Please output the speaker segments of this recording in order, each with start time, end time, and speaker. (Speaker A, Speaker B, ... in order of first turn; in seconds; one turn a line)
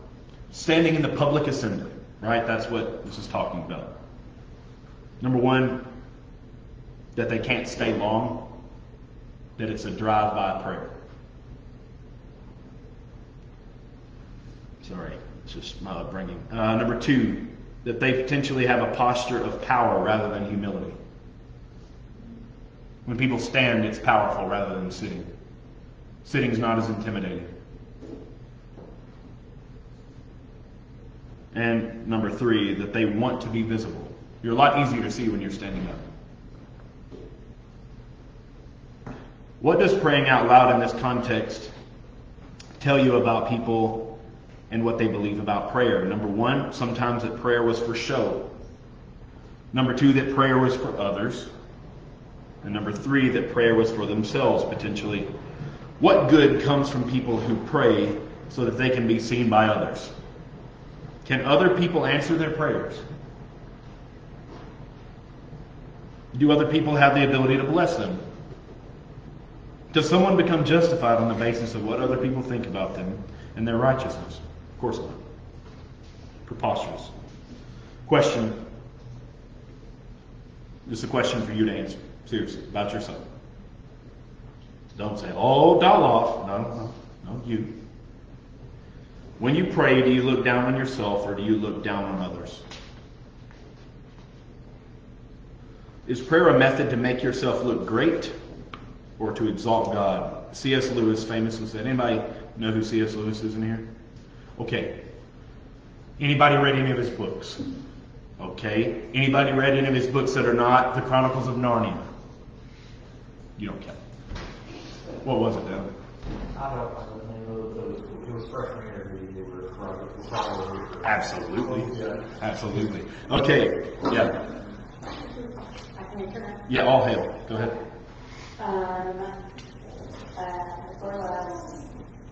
Speaker A: 0.5-4.0
Speaker A: 5.2-5.9
Speaker A: 7.1-8.5
Speaker A: 9.6-10.9
Speaker A: 14.8-21.0
Speaker A: 23.0-25.3
Speaker A: 26.2-27.5
Speaker A: 31.5-36.0
Speaker A: 39.6-41.7
Speaker A: 42.8-44.2
Speaker A: 44.7-48.5
Speaker A: 49.7-51.5
Speaker A: 52.6-55.3
Speaker A: 56.0-60.1
Speaker A: 61.2-63.0
Speaker A: 66.3-68.2
Speaker A: 69.9-75.2
Speaker A: 76.4-77.1
Speaker A: 78.0-78.6
Speaker A: 80.8-83.2
Speaker A: 84.9-87.8
Speaker A: 89.4-92.6
Speaker A: 96.0-98.3
Speaker A: 99.2-103.9
Speaker A: 104.6-105.0
Speaker A: 106.2-107.6
Speaker A: 108.4-112.1
Speaker A: 113.6-114.0
Speaker A: 115.2-115.9
Speaker B: 116.5-122.3
Speaker A: 121.0-124.4
Speaker C: 126.0-126.6
Speaker A: 126.7-127.8
Speaker C: 128.6-129.3
Speaker C: 130.3-131.7